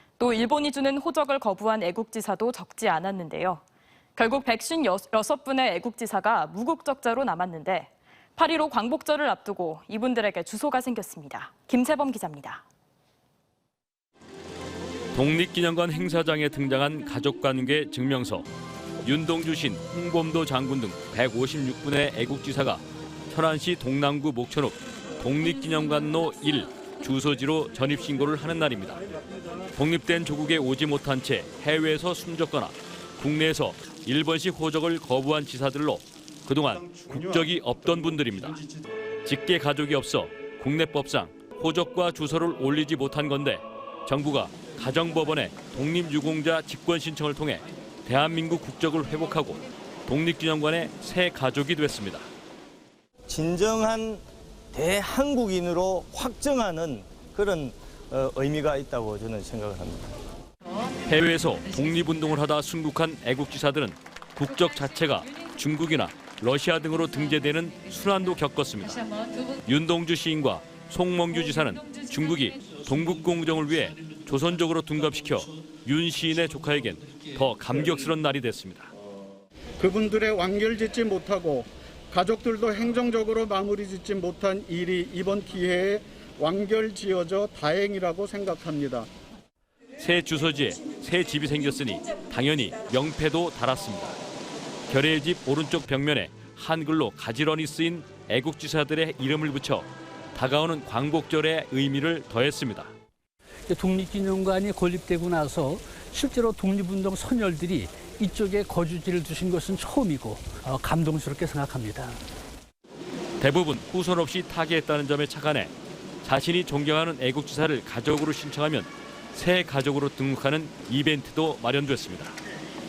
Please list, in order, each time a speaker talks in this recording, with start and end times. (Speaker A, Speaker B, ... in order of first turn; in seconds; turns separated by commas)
Speaker A: 0.2-3.6, Speaker A: 4.2-12.6, Speaker B: 15.2-18.5, Speaker B: 19.0-29.0, Speaker B: 29.8-38.6, Speaker B: 39.2-52.3, Speaker C: 53.3-60.1, Speaker B: 61.1-69.1, Speaker B: 69.6-78.9, Speaker D: 79.8-89.1, Speaker B: 90.0-94.2, Speaker B: 94.9-102.9, Speaker E: 103.7-112.2, Speaker B: 113.4-115.7, Speaker B: 116.2-122.3